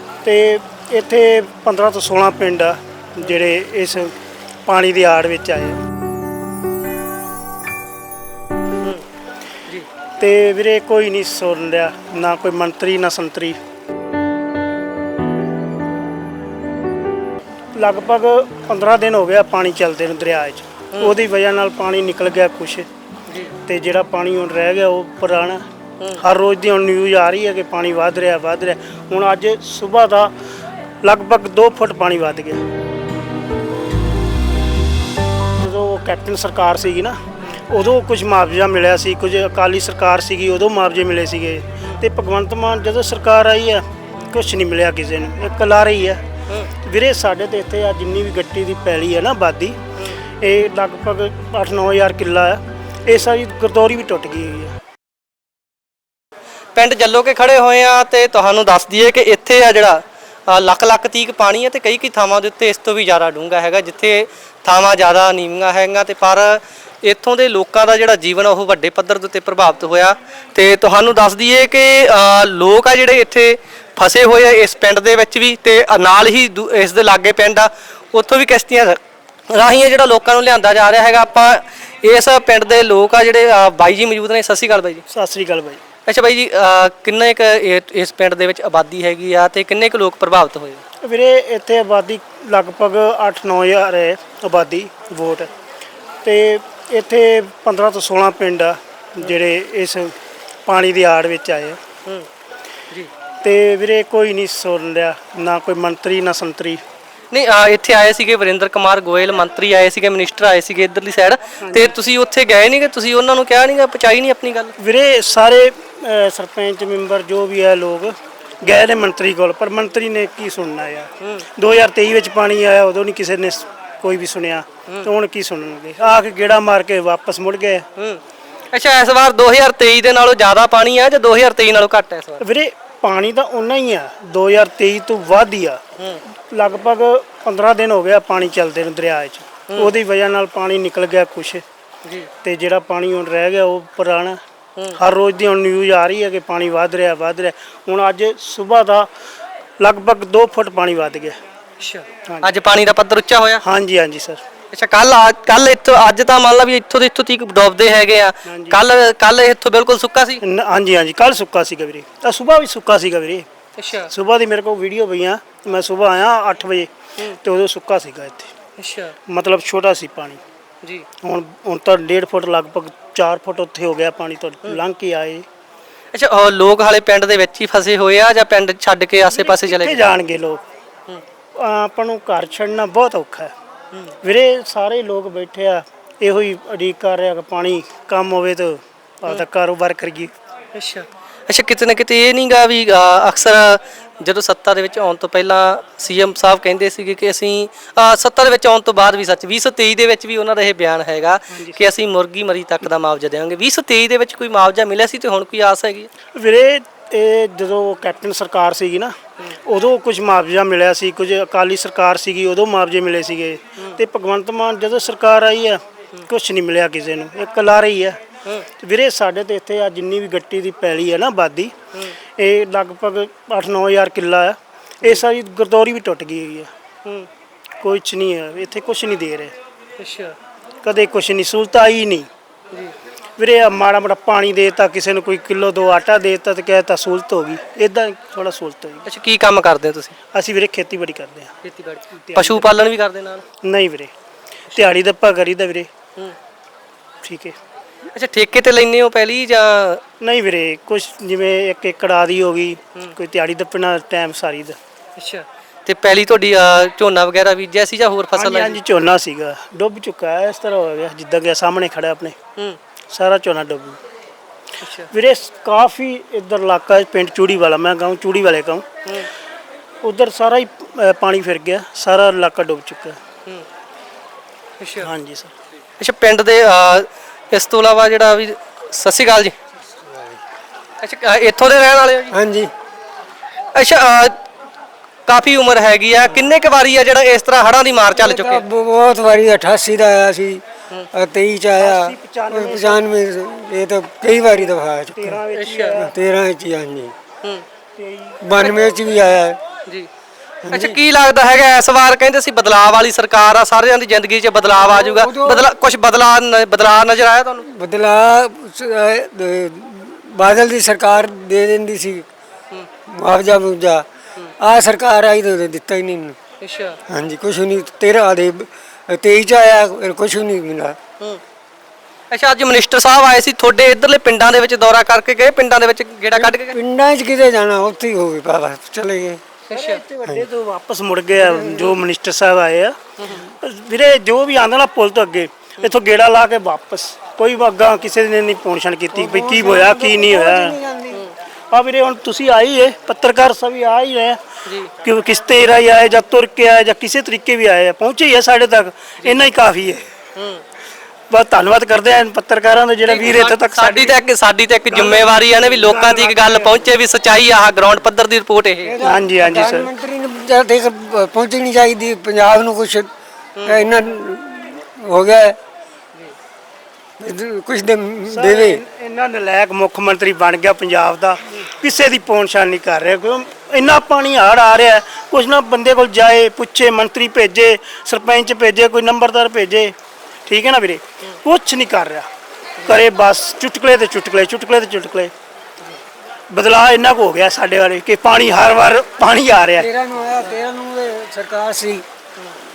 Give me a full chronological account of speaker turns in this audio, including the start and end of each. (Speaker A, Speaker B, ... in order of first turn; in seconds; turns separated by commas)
Speaker A: 0.2-5.8, Speaker A: 10.2-13.6, Speaker A: 17.8-22.9, Speaker B: 23.3-23.5, Speaker A: 23.6-25.6, Speaker A: 26.1-30.3, Speaker A: 31.0-32.6, Speaker A: 35.5-54.8, Speaker B: 56.7-85.0, Speaker A: 85.1-85.8, Speaker B: 86.1-90.8, Speaker A: 91.0-95.5, Speaker A: 96.2-101.8, Speaker A: 103.4-106.8, Speaker B: 107.3-114.7, Speaker A: 111.6-111.9, Speaker A: 114.8-127.8, Speaker B: 121.2-121.5, Speaker B: 128.7-132.4, Speaker A: 132.4-135.8, Speaker A: 136.5-141.6, Speaker B: 139.7-139.9, Speaker B: 142.0-142.3, Speaker A: 142.4-144.4, Speaker A: 144.9-149.1, Speaker A: 149.8-151.4, Speaker B: 151.8-153.6, Speaker A: 152.2-152.5, Speaker A: 153.6-154.4, Speaker B: 154.7-160.4, Speaker A: 158.4-158.8, Speaker A: 160.4-163.4, Speaker B: 163.8-164.1, Speaker A: 164.1-168.5, Speaker B: 168.8-169.2, Speaker A: 169.3-170.4, Speaker A: 171.2-175.4, Speaker B: 176.1-180.0, Speaker A: 179.2-180.6, Speaker A: 181.5-183.5, Speaker A: 184.2-190.3, Speaker B: 190.7-206.1, Speaker A: 201.5-201.8, Speaker A: 206.3-221.7, Speaker A: 222.4-226.7, Speaker A: 227.8-229.5, Speaker B: 230.0-230.4, Speaker A: 230.8-232.3, Speaker A: 233.4-239.0, Speaker B: 239.1-240.1, Speaker A: 240.3-241.5, Speaker B: 241.6-243.4, Speaker A: 242.1-242.7, Speaker A: 243.6-244.1, Speaker A: 244.7-245.9, Speaker A: 247.2-247.6, Speaker B: 248.1-250.0, Speaker A: 250.2-254.8, Speaker B: 255.2-258.8, Speaker A: 258.3-262.4, Speaker A: 263.1-264.0, Speaker B: 264.8-265.1, Speaker A: 265.1-268.9, Speaker A: 270.0-273.2, Speaker B: 274.8-275.1, Speaker A: 275.0-275.5, Speaker B: 276.0-279.5, Speaker C: 279.8-280.4, Speaker B: 281.0-282.3, Speaker C: 282.3-282.7, Speaker B: 283.7-284.4, Speaker B: 285.3-288.6, Speaker C: 288.1-297.1, Speaker A: 291.8-293.0, Speaker A: 295.1-296.1, Speaker B: 295.5-295.9, Speaker A: 298.0-298.4, Speaker C: 298.4-299.6, Speaker C: 300.6-301.0, Speaker B: 300.7-307.7, Speaker C: 304.6-305.7, Speaker C: 307.6-312.3, Speaker C: 313.1-314.1, Speaker C: 314.6-316.4, Speaker B: 316.6-317.0, Speaker C: 317.1-321.0, Speaker B: 322.3-326.8, Speaker C: 326.3-329.5, Speaker A: 329.7-340.8, Speaker B: 329.7-330.0, Speaker C: 331.4-332.0, Speaker B: 333.2-333.4, Speaker C: 339.1-341.3, Speaker A: 341.7-344.4, Speaker B: 344.6-344.9, Speaker A: 345.0-350.0, Speaker B: 350.4-350.6, Speaker A: 351.3-354.1, Speaker B: 353.1-359.0, Speaker A: 354.9-356.9, Speaker C: 358.8-363.1, Speaker A: 359.0-359.9, Speaker B: 363.6-363.9, Speaker C: 363.6-365.6, Speaker C: 367.2-368.8, Speaker A: 368.3-379.9, Speaker A: 380.4-382.3, Speaker A: 382.8-385.3, Speaker A: 386.5-389.9, Speaker C: 389.8-392.0